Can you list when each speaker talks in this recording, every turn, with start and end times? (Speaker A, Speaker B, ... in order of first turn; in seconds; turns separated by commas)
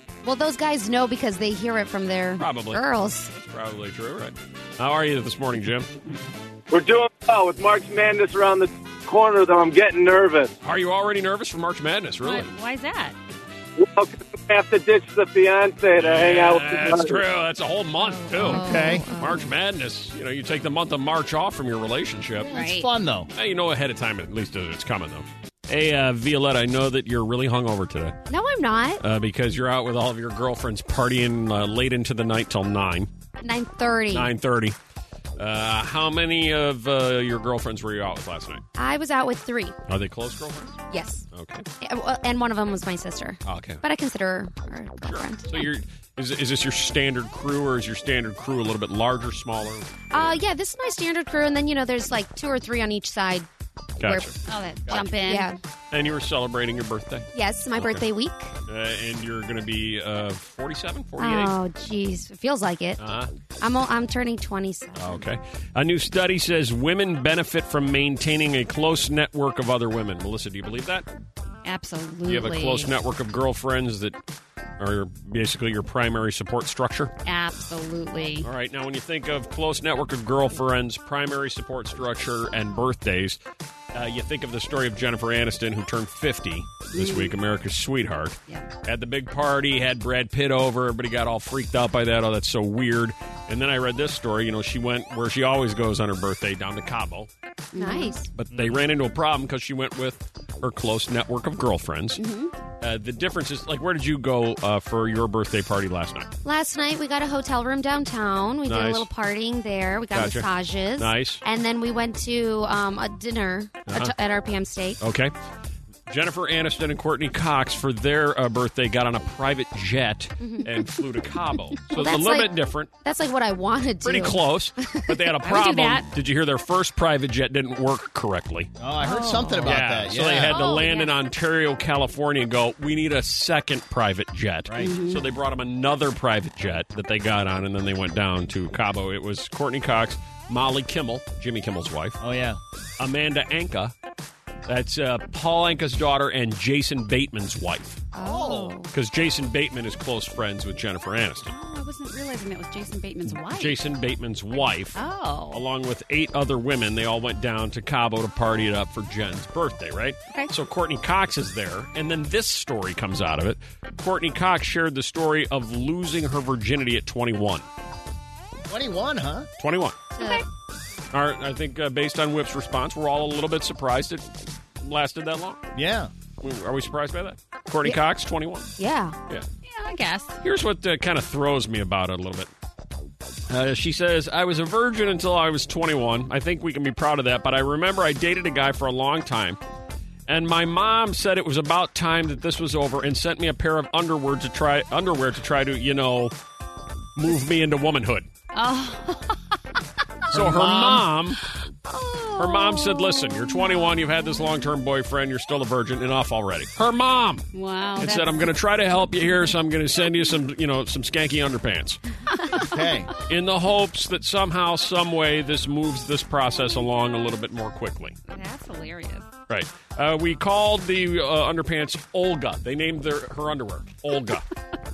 Speaker A: 0.2-3.3, Speaker B: 2.4-5.9, Speaker C: 6.7-10.5, Speaker B: 10.6-12.5, Speaker D: 12.2-13.2, Speaker C: 13.8-17.2, Speaker B: 16.0-22.6, Speaker D: 18.0-19.4, Speaker E: 18.5-19.1, Speaker A: 18.6-19.5, Speaker E: 22.5-23.3, Speaker D: 22.5-22.9, Speaker B: 23.3-28.2, Speaker A: 28.3-29.0, Speaker B: 29.0-33.1, Speaker A: 33.4-34.3, Speaker B: 34.1-34.8, Speaker B: 35.4-38.6, Speaker A: 38.8-39.8, Speaker B: 39.9-40.8, Speaker A: 40.9-41.2, Speaker B: 41.3-41.7, Speaker A: 41.8-45.7, Speaker B: 43.5-43.8, Speaker B: 45.0-50.4, Speaker A: 50.1-53.5, Speaker A: 54.0-54.3, Speaker B: 54.0-54.3, Speaker D: 54.5-55.5, Speaker B: 54.9-55.1, Speaker A: 54.9-55.6, Speaker B: 55.9-58.0, Speaker A: 57.3-58.5, Speaker B: 58.7-61.5, Speaker A: 61.2-63.0, Speaker B: 63.0-63.3, Speaker A: 63.6-65.2, Speaker B: 65.0-71.1, Speaker D: 71.6-72.9, Speaker B: 72.2-74.2, Speaker B: 74.8-77.1, Speaker D: 77.3-78.5, Speaker B: 78.4-83.4, Speaker B: 83.9-97.3, Speaker D: 86.9-87.3, Speaker D: 97.7-98.2, Speaker A: 97.8-98.3, Speaker B: 98.3-102.2, Speaker A: 102.2-102.5, Speaker B: 102.8-106.3, Speaker A: 106.4-115.0, Speaker B: 108.7-109.1, Speaker B: 110.1-111.4, Speaker B: 113.9-114.2, Speaker B: 115.0-115.3, Speaker B: 116.1-122.9, Speaker A: 120.4-120.9, Speaker A: 121.9-125.2, Speaker B: 124.0-128.7, Speaker D: 125.4-126.1, Speaker E: 128.8-130.6, Speaker D: 129.0-129.8, Speaker B: 129.6-142.2, Speaker D: 130.5-131.0, Speaker A: 130.6-131.1, Speaker E: 134.7-134.9, Speaker D: 134.8-135.2, Speaker E: 142.2-142.6, Speaker B: 143.0-143.9, Speaker B: 144.7-148.0, Speaker A: 148.1-148.8, Speaker E: 148.2-148.8, Speaker D: 148.2-148.8, Speaker B: 148.9-151.5, Speaker D: 151.5-153.8, Speaker B: 153.3-155.0, Speaker D: 154.9-155.7, Speaker B: 155.5-167.7, Speaker E: 168.7-169.5, Speaker B: 169.6-170.0, Speaker A: 170.2-170.4, Speaker D: 170.2-170.4, Speaker B: 171.1-174.3, Speaker B: 174.8-175.6, Speaker E: 175.7-176.1, Speaker B: 176.4-178.7, Speaker A: 178.8-179.2, Speaker D: 179.7-180.4, Speaker B: 180.4-182.5, Speaker B: 183.5-189.6, Speaker B: 190.3-196.3, Speaker B: 197.2-198.3, Speaker D: 198.5-199.4, Speaker B: 200.3-201.4, Speaker D: 200.3-203.7, Speaker B: 202.4-212.0, Speaker D: 207.5-208.4, Speaker E: 212.6-213.1, Speaker B: 213.2-218.2, Speaker D: 218.3-219.3, Speaker B: 219.5-224.4